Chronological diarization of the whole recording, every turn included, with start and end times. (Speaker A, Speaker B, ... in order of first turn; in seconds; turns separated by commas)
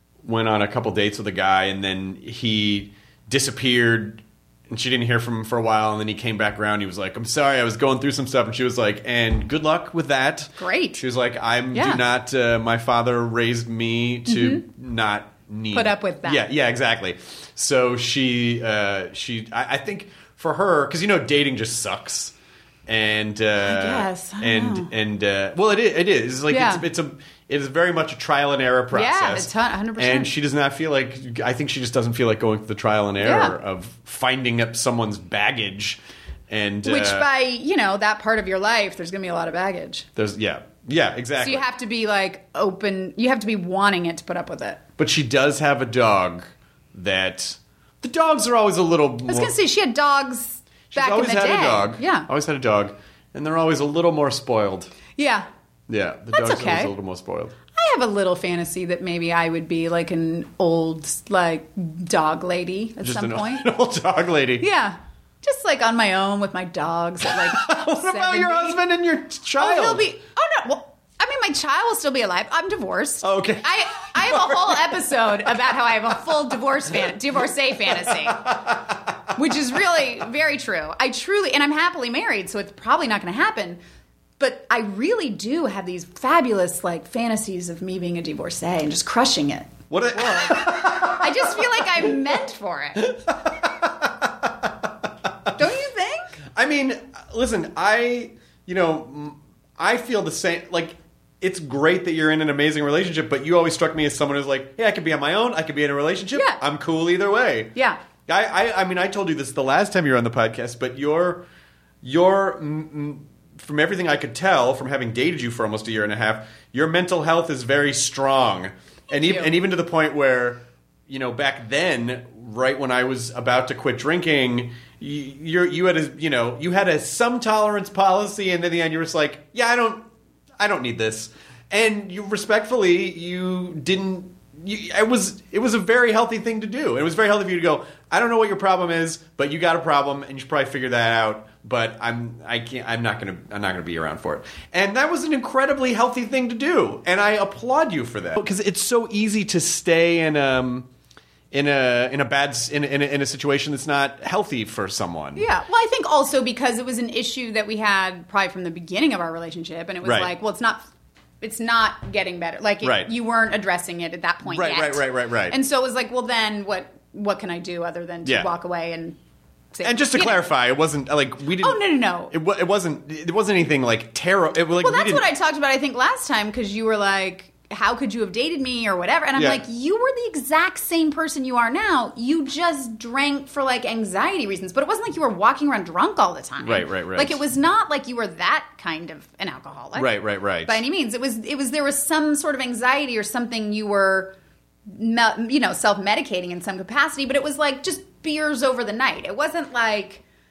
Speaker A: 0.2-22.3, Speaker B: 10.6-11.0, Speaker B: 11.7-12.0, Speaker B: 14.3-14.6, Speaker B: 15.7-16.4, Speaker A: 22.9-37.3, Speaker B: 23.6-24.9, Speaker B: 26.5-26.8, Speaker B: 28.9-30.3, Speaker B: 33.2-33.5, Speaker B: 36.8-40.1, Speaker A: 40.1-41.7, Speaker B: 41.4-44.8, Speaker A: 45.0-49.5, Speaker B: 49.3-52.3, Speaker A: 50.9-54.9, Speaker B: 55.2-55.5, Speaker A: 55.9-57.5, Speaker B: 56.3-56.9, Speaker B: 57.7-63.7, Speaker A: 63.0-64.7, Speaker B: 64.6-68.8, Speaker A: 67.2-70.0, Speaker B: 69.6-78.5, Speaker A: 73.2-75.2, Speaker A: 77.9-79.2, Speaker B: 79.3-83.8, Speaker B: 84.4-93.2, Speaker A: 89.9-92.3, Speaker A: 93.0-95.5, Speaker B: 95.5-96.3, Speaker A: 96.5-107.7, Speaker B: 106.3-106.6, Speaker A: 108.3-111.4, Speaker A: 112.0-150.9, Speaker B: 119.1-119.6, Speaker A: 151.5-155.4, Speaker B: 155.3-160.8, Speaker A: 160.0-160.3, Speaker B: 161.4-169.2, Speaker A: 162.8-163.1, Speaker A: 164.4-165.6, Speaker A: 168.2-168.5, Speaker B: 169.7-170.4, Speaker A: 169.8-175.3, Speaker B: 171.6-172.3, Speaker B: 174.8-194.3, Speaker A: 179.3-179.6, Speaker A: 186.6-187.4, Speaker A: 189.9-190.8, Speaker B: 194.9-200.2